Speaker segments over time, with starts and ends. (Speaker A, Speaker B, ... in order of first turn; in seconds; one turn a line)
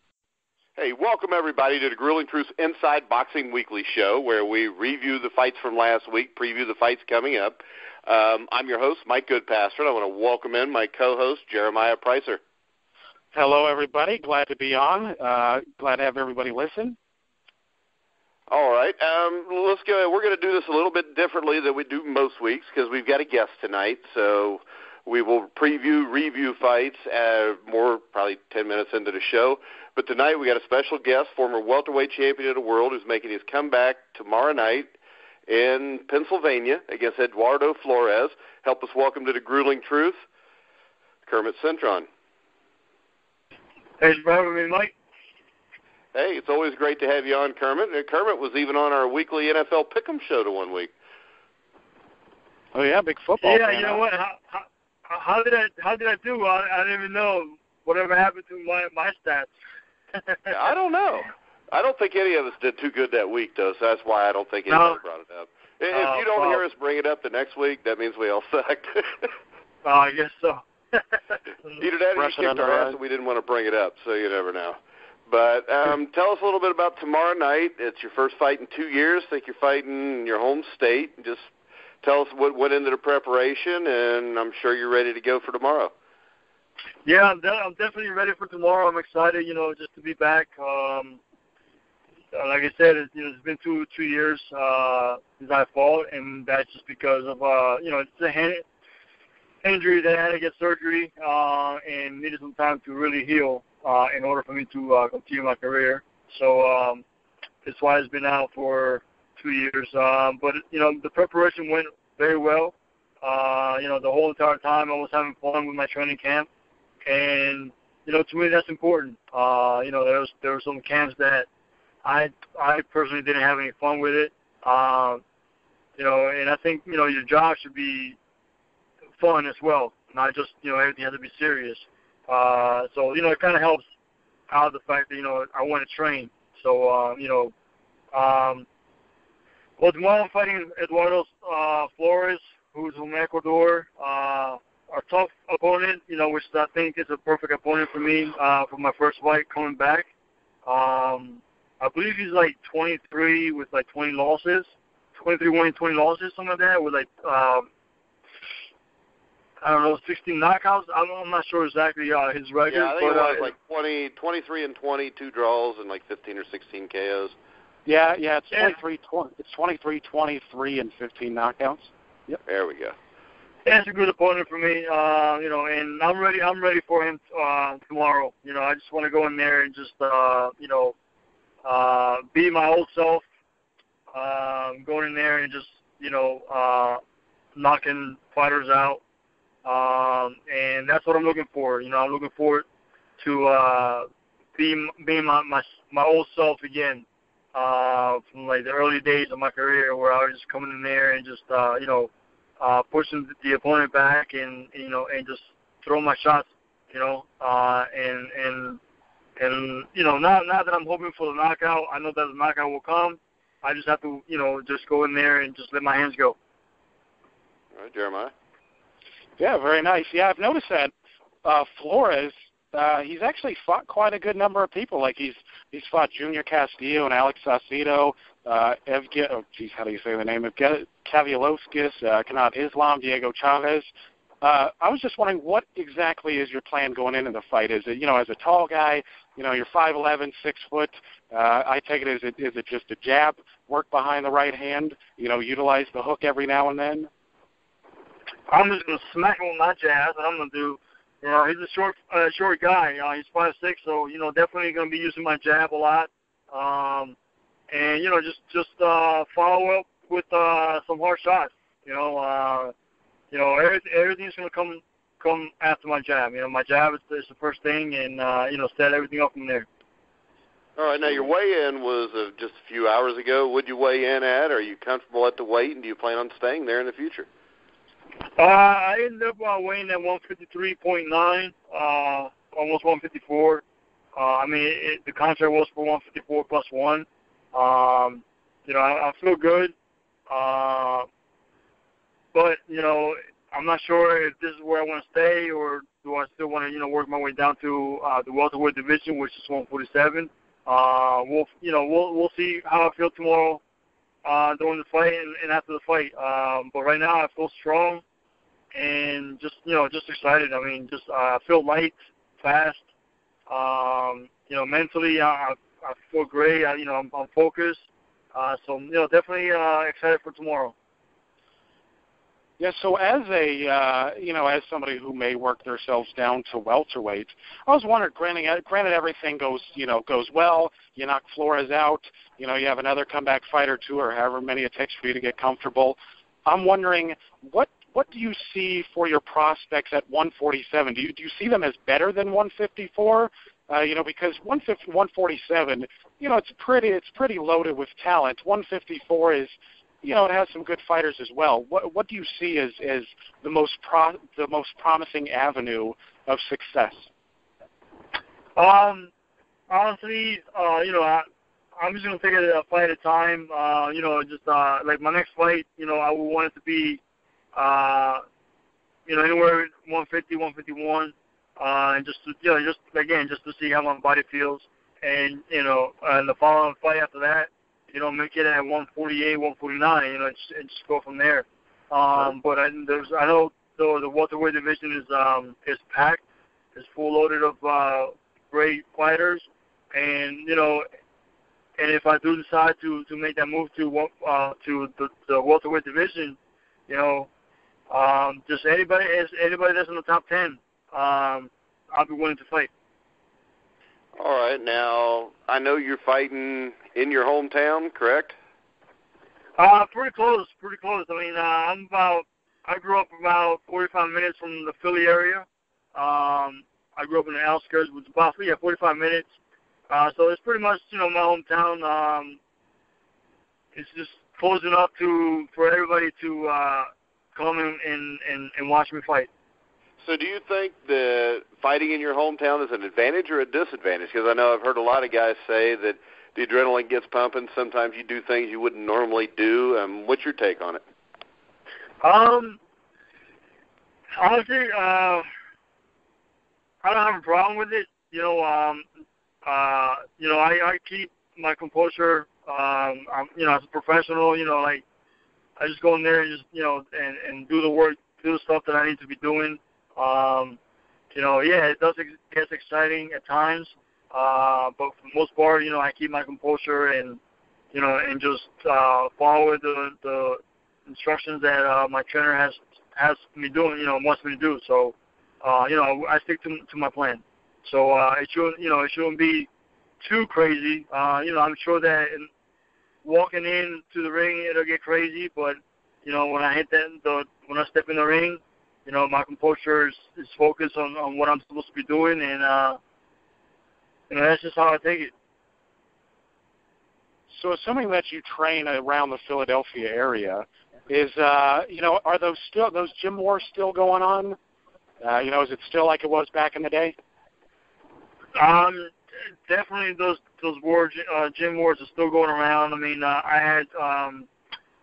Speaker A: 0.8-12.4
Speaker B: 13.3-17.0
Speaker A: 18.5-34.9
Speaker A: 35.5-40.1
Speaker A: 41.2-42.0
Speaker C: 44.0-44.9
Speaker A: 46.1-50.9
Speaker B: 52.7-54.0
Speaker C: 53.4-59.5
Speaker C: 60.1-60.5
Speaker A: 60.5-69.3
Speaker C: 64.7-65.0
Speaker C: 65.9-66.6
Speaker C: 69.8-71.0
Speaker A: 71.8-81.5
Speaker B: 72.2-73.0
Speaker A: 82.0-85.9
Speaker C: 87.0-91.2
Speaker C: 92.3-98.6
Speaker C: 99.6-107.0
Speaker C: 107.6-116.5
Speaker C: 117.0-121.5
Speaker C: 122.0-125.2
Speaker C: 126.0-128.2
Speaker C: 129.2-133.8
Speaker C: 134.5-137.5
Speaker C: 138.1-138.7
Speaker C: 139.8-150.1
Speaker C: 150.7-157.7
Speaker C: 159.6-163.5
Speaker A: 162.7-167.3
Speaker B: 167.8-172.4
Speaker A: 172.4-172.9
Speaker C: 173.6-180.9
Speaker C: 181.6-183.2
Speaker C: 184.1-187.0
Speaker C: 187.5-189.0
Speaker C: 189.6-192.7
Speaker C: 193.2-208.8
Speaker C: 209.4-216.4
Speaker A: 217.7-218.3
Speaker B: 219.4-220.9
Speaker B: 221.4-233.9
Speaker B: 234.4-247.1
Speaker C: 248.5-257.1
Speaker C: 257.7-262.7
Speaker C: 263.3-269.7
Speaker A: 270.8-277.2
Speaker C: 278.4-283.6
Speaker C: 284.1-289.7
Speaker C: 290.3-291.1
Speaker C: 292.3-303.6
Speaker C: 304.2-308.0
Speaker C: 308.7-312.8
Speaker C: 313.5-320.7
Speaker B: 322.6-357.1
Speaker C: 358.6-359.1
Speaker C: 359.7-361.2
Speaker C: 361.8-367.0
Speaker C: 367.5-368.2
Speaker C: 369.1-386.2
Speaker C: 386.7-390.8
Speaker C: 391.8-396.4
Speaker C: 396.9-397.3
Speaker C: 397.9-402.7
Speaker A: 404.2-408.3
Speaker C: 409.6-419.3
Speaker C: 419.9-422.4
Speaker C: 423.7-429.3
Speaker A: 430.0-440.8
Speaker C: 442.0-442.6
Speaker C: 444.2-445.3
Speaker C: 446.8-448.9
Speaker C: 449.4-454.8
Speaker C: 455.6-460.6
Speaker C: 461.1-467.2
Speaker C: 467.7-479.5
Speaker C: 480.0-482.3
Speaker C: 483.0-492.8
Speaker C: 494.1-495.1
Speaker B: 497.3-504.4
Speaker B: 505.0-506.9
Speaker C: 508.3-508.9
Speaker C: 509.5-514.3